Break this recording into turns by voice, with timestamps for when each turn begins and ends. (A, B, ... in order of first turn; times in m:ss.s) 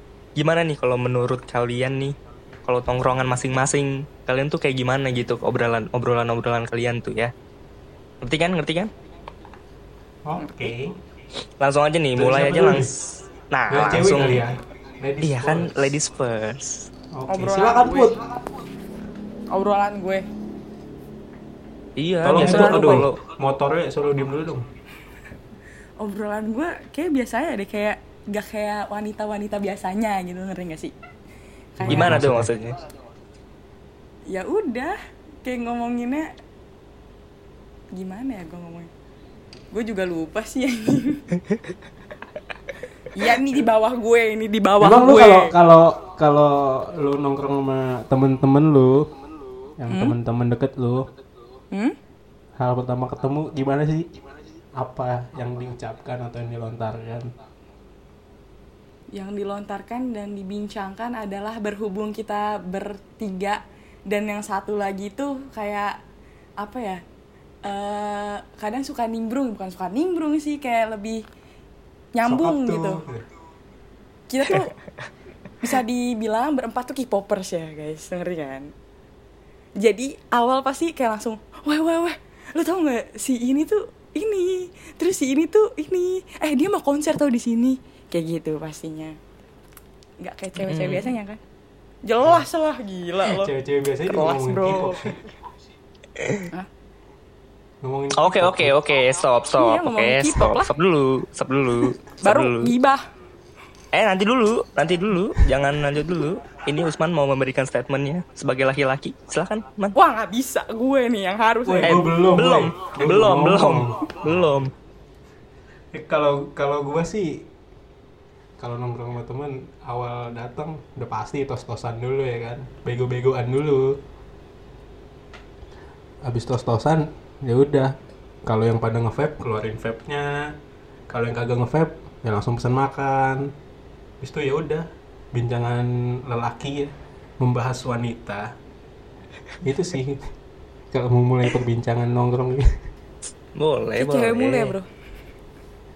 0:00.4-0:07.3 A
0:08.2-0:08.9 A
0:10.2-0:10.9 B
0:10.4-0:10.7 C
0:11.6-0:14.4 A
0:12.1-0:12.9 B
0:13.7-0:15.9 B
0:15.2-0:16.9 A
0:17.1-0:18.2 B
0:17.3-0:18.2 C
0:19.5-0:20.2 C
0:22.0-0:23.2 A
0:22.2-0:24.6 B
0:26.0-0:30.9 C
0:31.8-0:32.2 C
0:31.8-0:32.5 B
0:31.9-0:32.8 A
0:34.3-0:36.3 C
0:37.9-0:38.9 C
0:39.7-0:41.2 C
0:43.1-0:45.5 C
0:44.8-0:49.1 B
0:49.8-0:51.1 B
0:49.9-0:50.2 C
0:52.6-0:54.1 B
0:54.8-0:57.3 B
0:59.1-1:06.0 C
1:06.6-1:07.0 C
1:07.6-1:11.2 C
1:12.1-1:13.0 C
1:12.2-1:13.3 B
1:14.3-1:14.7 C
1:15.6-1:18.7 C
1:19.8-1:29.2 C
1:30.2-1:31.4 C
1:30.6-1:31.1 A
1:32.0-1:33.5 C
1:33.2-1:35.2 B
1:34.0-1:35.2 C
1:36.2-1:36.5 A
1:37.8-1:38.7 B
1:38.2-1:42.7 A
1:39.6-1:40.7 C
1:42.2-1:43.0 C
1:43.9-1:49.9 A
1:49.9-1:52.0 C
1:51.6-1:54.5 B
1:51.8-1:54.7 A
1:55.9-1:57.4 B
1:58.6-2:04.0 B
2:06.2-2:07.9 B
2:08.4-2:10.5 B
2:11.1-2:13.5 B
2:14.2-2:18.5 B
2:19.6-2:20.3 B
2:20.9-2:22.7 B
2:23.6-2:24.7 A
2:24.0-2:24.9 C